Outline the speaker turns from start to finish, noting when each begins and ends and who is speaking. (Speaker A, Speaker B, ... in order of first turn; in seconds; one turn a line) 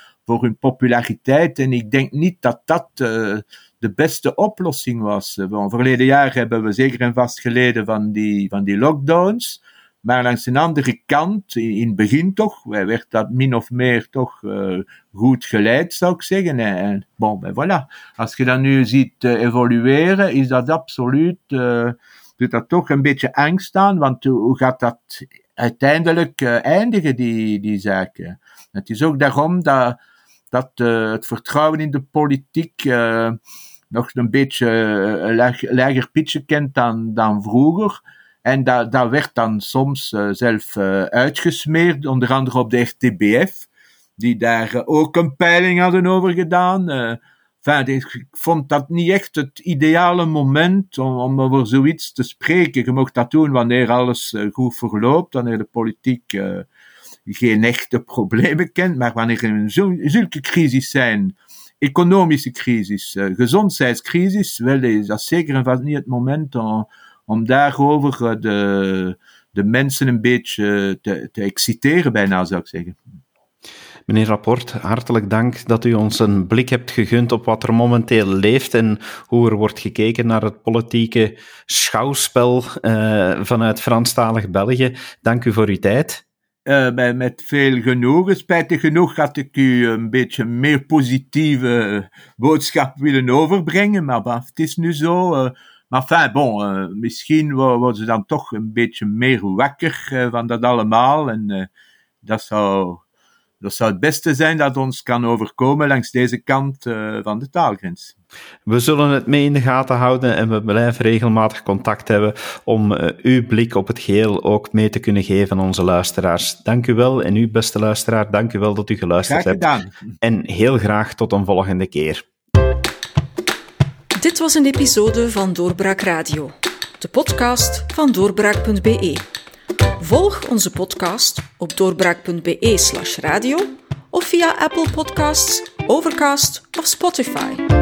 Speaker A: 0.2-30.0
Speaker A: 30.5-33.4
Speaker A: 33.9-43.7
Speaker A: 44.2-56.6
Speaker A: 57.2-73.0
Speaker B: 74.1-86.2
Speaker A: 86.7-101.7
Speaker A: 102.2-103.0
Speaker A: 103.6-108.1
Speaker B: 108.7-119.7
Speaker A: 119.2-119.9
Speaker B: 120.2-122.2
Speaker C: 124.2-129.2
Speaker C: 130.0-137.7